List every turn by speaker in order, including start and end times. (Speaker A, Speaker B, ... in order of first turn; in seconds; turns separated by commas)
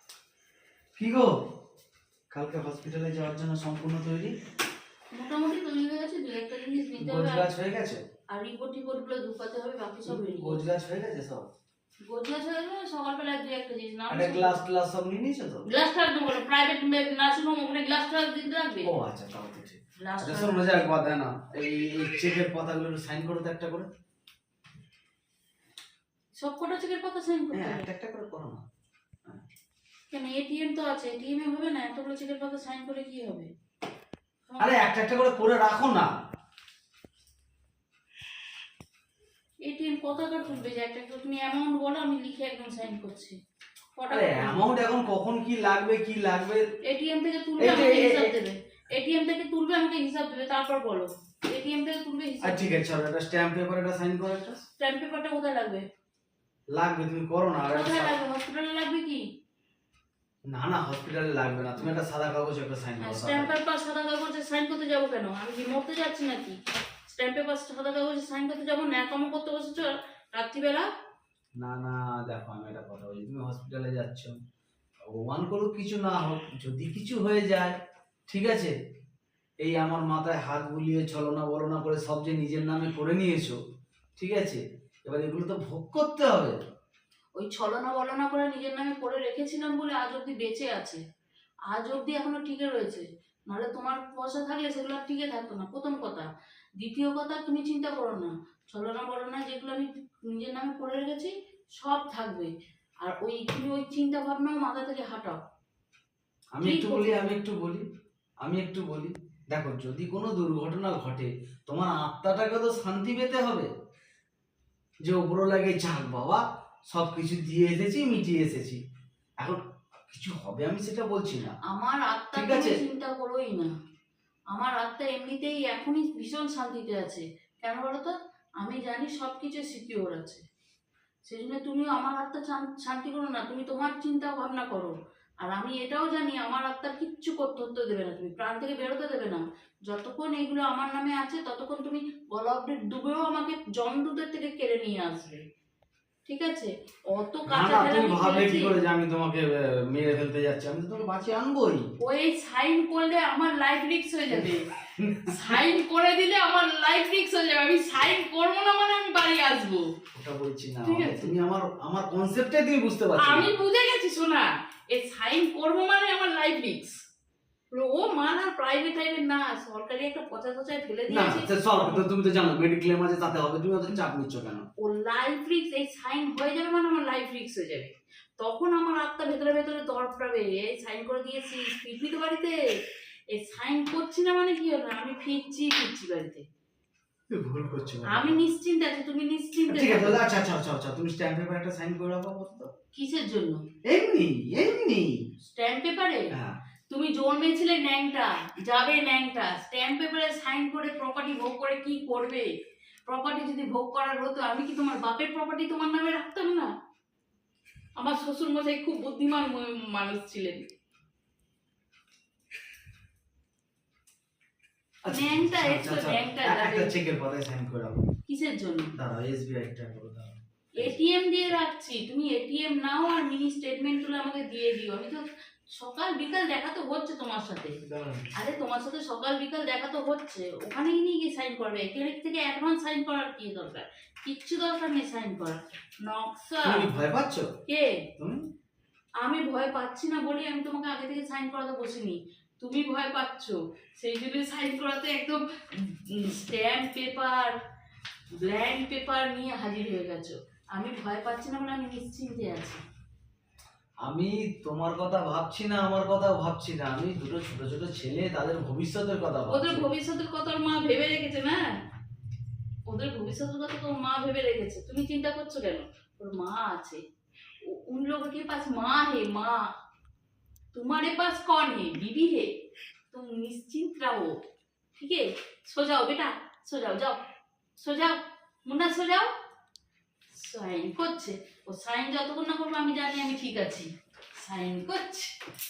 Speaker A: 1.0-1.3, Speaker A: 2.3-4.3, Speaker B: 5.1-7.5, Speaker A: 7.0-8.0, Speaker B: 8.3-10.6, Speaker A: 10.1-11.5, Speaker B: 12.1-14.6, Speaker A: 14.1-15.7, Speaker B: 15.7-18.9, Speaker A: 18.8-23.9, Speaker B: 20.0-20.9, Speaker B: 26.4-27.9, Speaker A: 27.5-28.6, Speaker B: 30.1-33.5, Speaker B: 34.5-34.7, Speaker A: 34.6-36.1, Speaker B: 39.6-43.4, Speaker B: 44.0-44.7, Speaker A: 44.1-46.6, Speaker B: 46.8-52.8, Speaker A: 47.6-48.3, Speaker A: 52.4-54.6, Speaker B: 54.8-55.9, Speaker A: 56.7-58.1, Speaker B: 57.7-59.2, Speaker A: 60.5-63.5, Speaker B: 63.0-70.8, Speaker A: 71.6-74.4, Speaker A: 75.0-77.8, Speaker A: 78.3-78.7, Speaker A: 79.6-83.6, Speaker A: 84.2-86.6, Speaker B: 87.3-91.0, Speaker B: 91.7-96.3, Speaker B: 96.8-105.4, Speaker A: 106.5-107.8, Speaker B: 106.6-107.3, Speaker A: 108.4-113.7, Speaker A: 115.0-118.8, Speaker A: 119.4-121.5, Speaker B: 121.7-123.7, Speaker A: 122.3-122.8, Speaker B: 124.5-130.4, Speaker B: 131.2-145.4, Speaker B: 146.2-148.8, Speaker A: 147.5-151.9, Speaker B: 152.0-154.7, Speaker A: 154.3-155.6, Speaker B: 155.3-159.9, Speaker A: 160.1-163.5, Speaker B: 160.8-161.3, Speaker B: 163.2-167.0, Speaker B: 167.7-171.8, Speaker A: 171.1-174.7, Speaker B: 174.8-186.4, Speaker A: 187.3-188.4, Speaker B: 188.0-190.2, Speaker A: 189.6-192.7, Speaker B: 192.9-193.6, Speaker A: 193.9-195.2, Speaker B: 195.4-196.3, Speaker B: 196.9-202.5, Speaker B: 203.1-206.7, Speaker B: 208.0-210.7, Speaker A: 215.0-218.1, Speaker B: 215.1-216.9, Speaker B: 218.3-218.9, Speaker A: 218.9-220.9, Speaker B: 220.8-227.8, Speaker A: 227.8-228.3, Speaker B: 228.3-236.8, Speaker A: 236.6-237.5, Speaker B: 237.7-238.1, Speaker A: 238.2-238.4, Speaker B: 239.2-247.5, Speaker B: 248.3-252.8, Speaker A: 254.0-259.9, Speaker B: 259.5-261.6, Speaker B: 262.9-267.0, Speaker B: 267.6-269.7, Speaker B: 270.7-272.5, Speaker B: 273.1-274.4, Speaker B: 274.9-277.2, Speaker B: 277.8-279.3, Speaker B: 280.3-285.4